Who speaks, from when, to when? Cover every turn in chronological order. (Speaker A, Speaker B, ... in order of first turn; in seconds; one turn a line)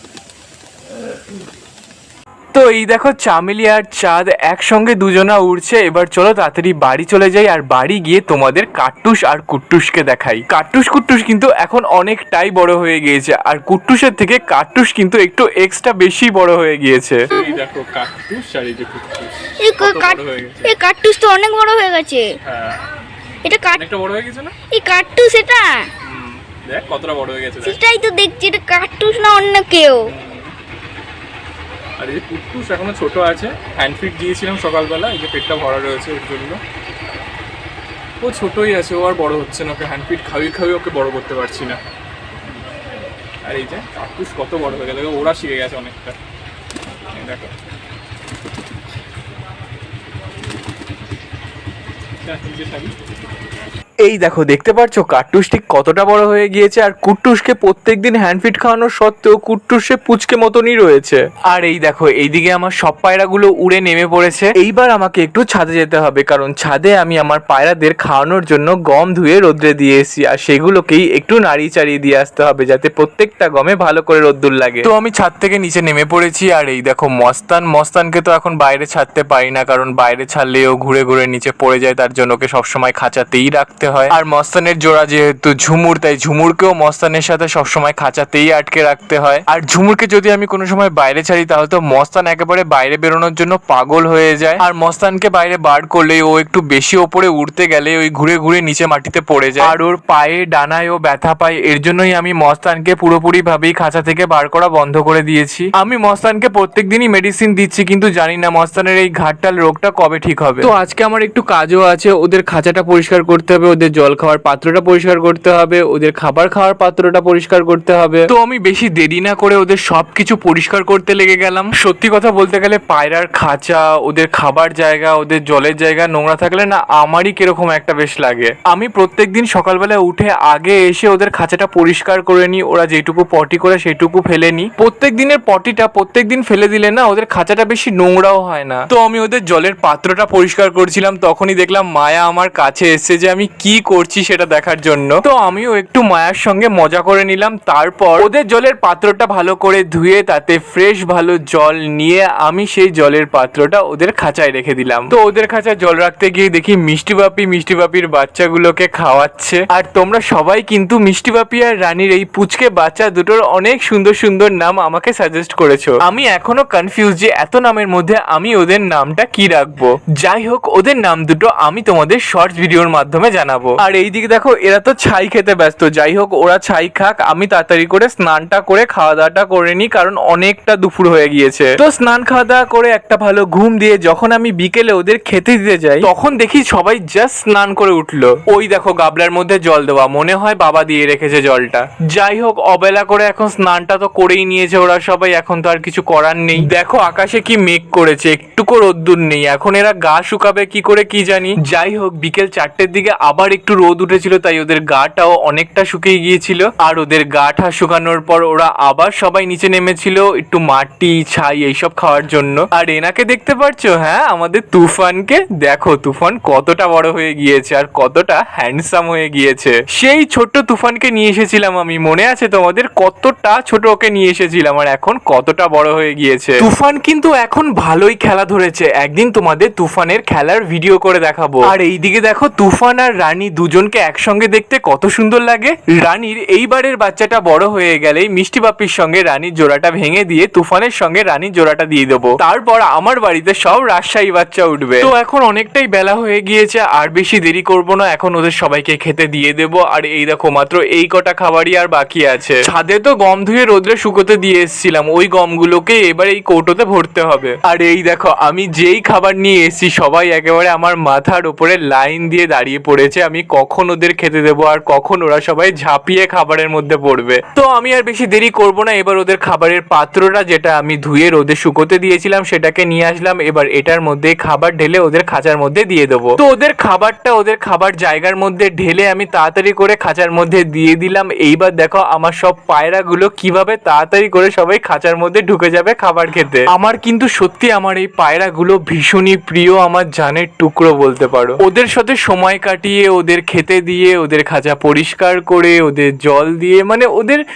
Speaker A: 2.5-17.2
Speaker B: 17.3-17.6
Speaker C: 17.3-20.7
Speaker B: 19.6-22.4
Speaker C: 22.4-22.8
Speaker B: 23.4-23.8
Speaker C: 23.7-24.5
Speaker B: 24.7-25.9
Speaker C: 26.0-27.8
Speaker B: 27.6-30.1
Speaker C: 30.1-30.5
Speaker C: 32.0-36.6
Speaker C: 38.2-41.8
Speaker C: 43.4-46.2
Speaker C: 47.1-47.5
Speaker C: 52.2-52.9
Speaker A: 54.0-297.4